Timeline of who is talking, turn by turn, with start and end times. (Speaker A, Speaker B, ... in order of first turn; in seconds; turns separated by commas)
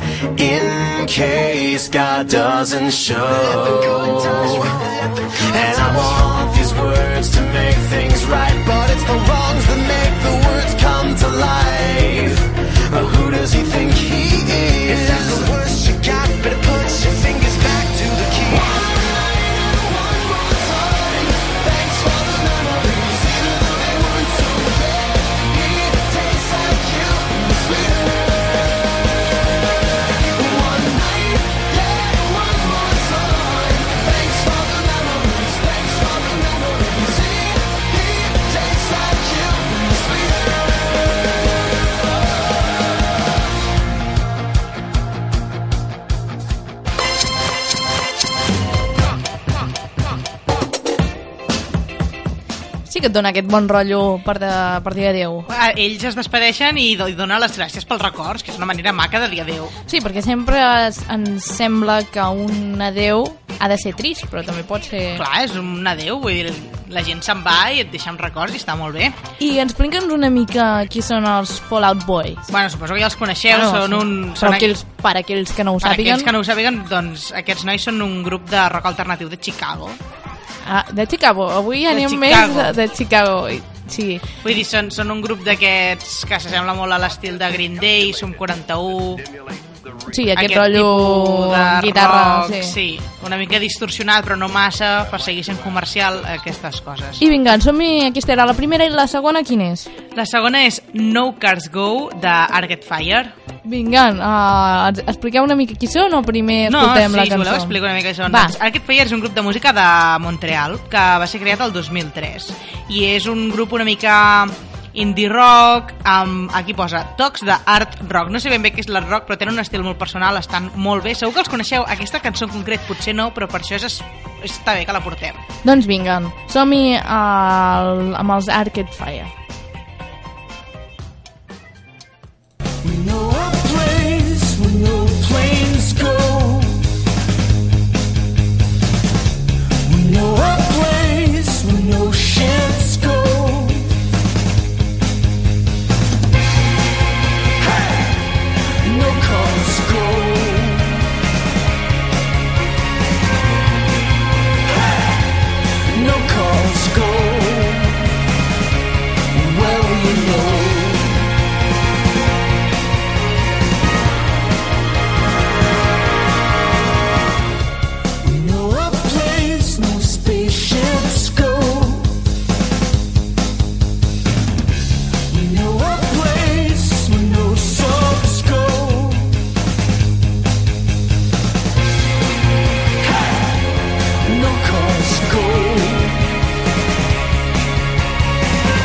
Speaker A: 0.4-28.2, Speaker A: 30.2-40.7, Speaker B: 52.9-55.5, Speaker C: 55.5-59.7, Speaker B: 59.9-65.2, Speaker C: 65.2-69.2, Speaker B: 69.4-72.4, Speaker C: 72.5-74.7, Speaker B: 73.5-76.3, Speaker C: 75.8-80.0, Speaker B: 80.7-84.3, Speaker C: 81.9-82.8, Speaker C: 84.4-89.3, Speaker B: 90.1-92.8, Speaker C: 90.4-97.2, Speaker B: 97.2-99.9, Speaker C: 100.2-103.3, Speaker B: 103.7-108.5, Speaker C: 106.7-125.4, Speaker B: 125.7-129.3, Speaker A: 132.8-136.9, Speaker A: 139.8-143.9, Speaker A: 147.7-148.0, Speaker A: 148.8-151.1, Speaker A: 155.9-158.1, Speaker A: 159.3-161.3, Speaker A: 168.2-172.2, Speaker A: 175.3-179.4, Speaker A: 184.2-186.3